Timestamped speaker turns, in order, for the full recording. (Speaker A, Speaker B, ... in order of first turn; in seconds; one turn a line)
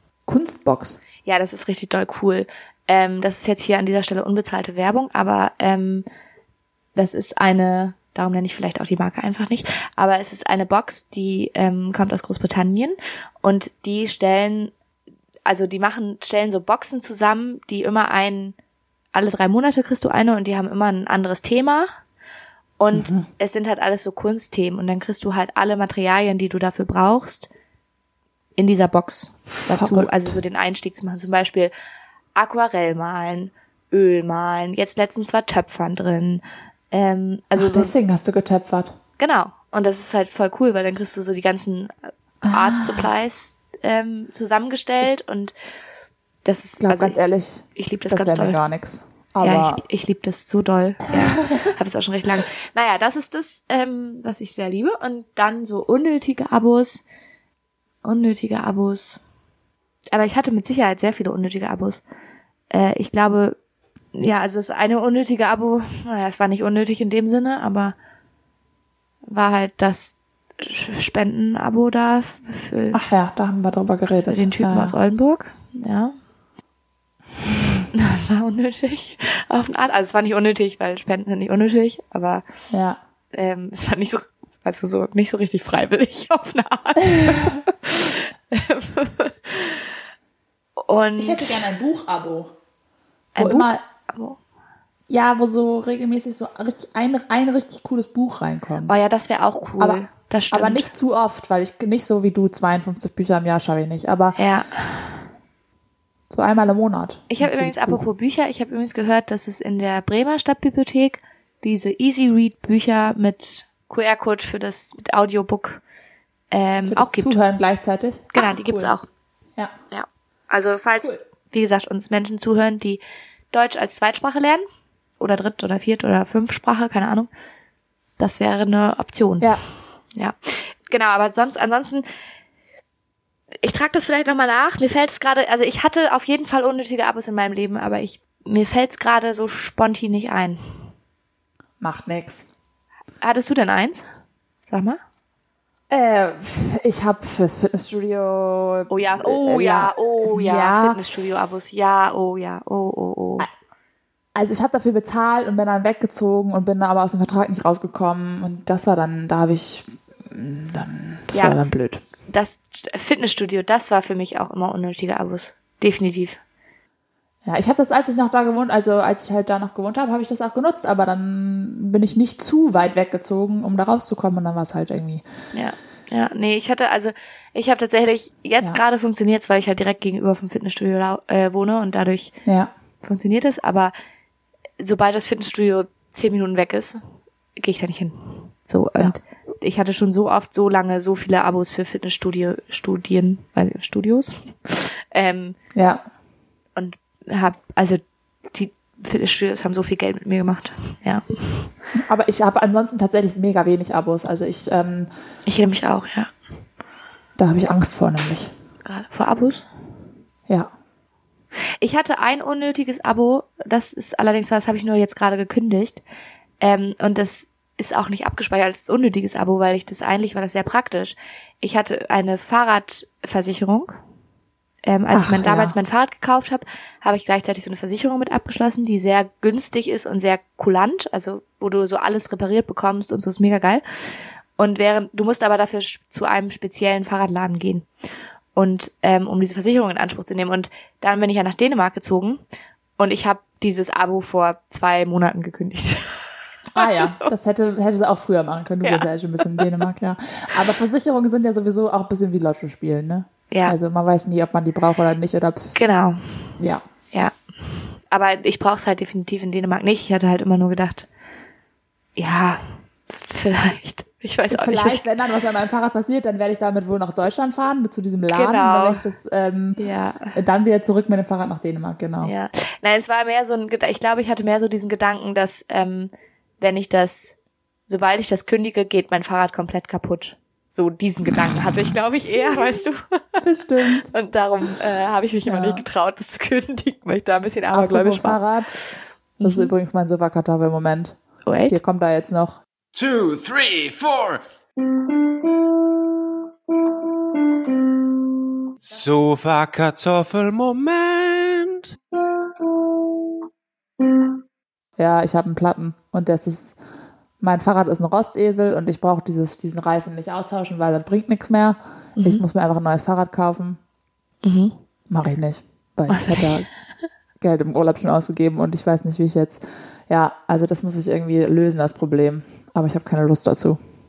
Speaker A: 0.3-1.0
Speaker B: 1.2-6.1
Speaker B: 7.0-14.7
Speaker B: 15.5-18.6
Speaker B: 19.1-21.9
Speaker B: 22.8-27.5
Speaker A: 22.9-23.2
Speaker B: 28.6-31.7
Speaker A: 29.6-30.4
Speaker B: 32.4-37.9
Speaker A: 37.6-39.0
Speaker B: 39.2-45.5
Speaker A: 42.4-43.1
Speaker B: 46.5-47.2
Speaker A: 46.8-49.8
Speaker B: 47.8-48.6
Speaker B: 49.4-57.0
Speaker A: 51.2-51.6
Speaker B: 58.0-59.2
Speaker B: 60.1-62.0
Speaker B: 62.7-63.6
Speaker B: 64.2-68.0
Speaker B: 69.3-73.0
Speaker A: 72.9-75.0
Speaker B: 74.3-76.2
Speaker B: 77.9-82.4
Speaker A: 82.7-83.0
Speaker B: 83.3-90.0
Speaker A: 87.1-87.5
Speaker B: 90.8-91.7
Speaker A: 91.2-92.5
Speaker B: 93.3-94.4
Speaker A: 93.4-93.8
Speaker A: 95.1-99.0
Speaker B: 98.9-100.9
Speaker A: 99.8-104.4
Speaker B: 104.4-105.3
Speaker A: 106.3-108.0
Speaker B: 107.3-115.8
Speaker B: 116.5-117.3
Speaker A: 116.9-118.9
Speaker B: 118.3-119.1
Speaker B: 119.9-123.0
Speaker B: 123.5-124.6
Speaker B: 125.2-127.3
Speaker B: 128.2-129.6
Speaker B: 130.2-132.1
Speaker B: 133.6-140.8
Speaker A: 141.8-142.5
Speaker B: 143.2-144.1
Speaker B: 144.6-145.0
Speaker A: 145.9-151.0
Speaker B: 148.9-153.5
Speaker A: 154.3-162.0
Speaker B: 161.3-161.7
Speaker B: 162.3-166.4
Speaker A: 167.4-175.2
Speaker B: 175.5-182.3
Speaker A: 182.4-182.7
Speaker B: 183.0-183.9
Speaker B: 184.8-187.0
Speaker B: 187.6-195.6
Speaker A: 195.7-196.0
Speaker B: 196.8-201.7
Speaker A: 202.0-205.1
Speaker B: 205.4-206.3
Speaker A: 207.4-208.5
Speaker B: 208.8-209.7
Speaker B: 211.8-216.0
Speaker B: 216.6-224.0
Speaker B: 224.8-233.8
Speaker A: 225.1-225.7
Speaker B: 234.6-237.9
Speaker B: 238.6-242.4
Speaker B: 243.0-246.1
Speaker A: 246.7-255.8
Speaker B: 246.8-247.3
Speaker B: 248.8-249.8
Speaker B: 253.5-253.8
Speaker B: 255.8-256.5
Speaker A: 256.6-256.8
Speaker B: 257.1-261.1
Speaker B: 262.2-265.1
Speaker A: 264.5-269.8
Speaker B: 268.3-269.0
Speaker B: 269.8-270.4
Speaker A: 270.3-272.3
Speaker B: 272.2-277.4
Speaker B: 277.9-289.7
Speaker A: 283.4-284.1
Speaker A: 285.4-285.9
Speaker A: 287.7-288.8
Speaker A: 289.4-292.6
Speaker B: 291.5-291.8
Speaker C: 292.9-294.4
Speaker C: 298.8-301.9
Speaker A: 305.0-306.8
Speaker A: 307.4-313.8
Speaker B: 312.2-312.4
Speaker B: 314.4-314.8
Speaker A: 315.1-316.7
Speaker B: 316.1-316.6
Speaker A: 317.4-323.8